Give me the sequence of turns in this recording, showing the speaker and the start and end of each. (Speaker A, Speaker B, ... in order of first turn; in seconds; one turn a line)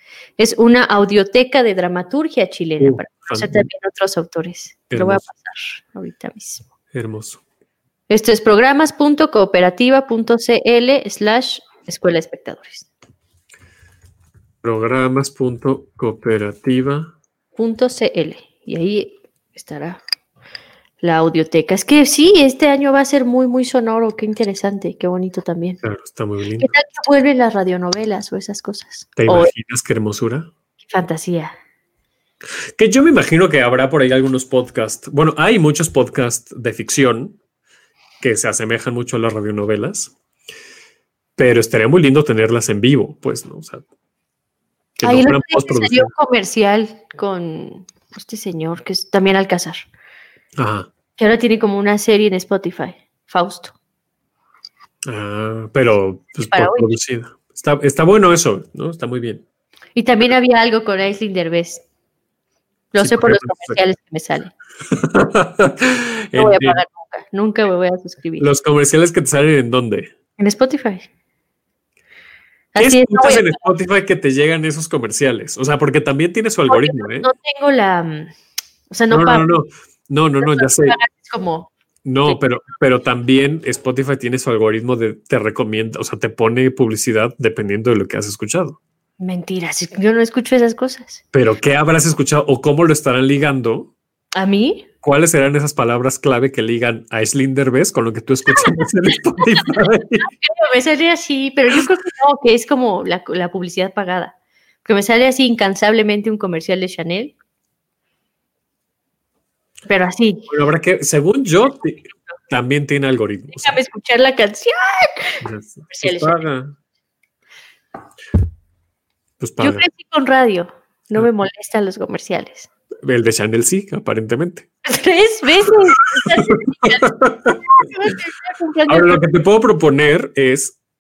Speaker A: 0.4-6.7
Speaker B: 2.8-3.7
Speaker B: 4.9-5.2
Speaker B: 6.9-7.4
Speaker A: 8.1-12.9
Speaker B: 14.6-17.1
Speaker A: 17.6-20.0
Speaker A: 21.0-25.8
Speaker B: 25.8-26.8
Speaker A: 26.6-29.5
Speaker B: 29.2-30.5
Speaker A: 30.9-31.5
Speaker B: 32.8-37.4
Speaker B: 38.2-40.1
Speaker B: 41.4-43.8
Speaker B: 45.0-46.1
Speaker A: 45.0-49.8
Speaker B: 50.6-50.9
Speaker A: 51.2-53.7
Speaker B: 55.1-59.4
Speaker A: 56.4-56.9
Speaker A: 60.0-61.9
Speaker A: 62.9-64.5
Speaker B: 63.0-63.8
Speaker B: 64.9-66.8
Speaker A: 66.3-68.5
Speaker B: 68.4-70.1
Speaker A: 70.4-71.1
Speaker A: 72.7-73.7
Speaker B: 72.8-77.3
Speaker A: 76.7-78.3
Speaker A: 78.9-79.5
Speaker B: 79.1-81.0
Speaker A: 80.4-81.7
Speaker B: 82.0-88.8
Speaker A: 89.2-91.2
Speaker B: 91.3-93.9
Speaker A: 94.3-94.9
Speaker B: 95.0-100.3
Speaker A: 99.4-104.3
Speaker A: 104.8-107.3
Speaker A: 109.9-110.5
Speaker B: 110.5-113.8
Speaker A: 113.5-116.4
Speaker B: 115.4-116.8
Speaker B: 119.4-119.9
Speaker A: 119.6-122.7
Speaker B: 123.0-124.7
Speaker A: 124.9-127.1
Speaker B: 125.7-127.6
Speaker A: 127.6-129.2
Speaker B: 128.9-130.8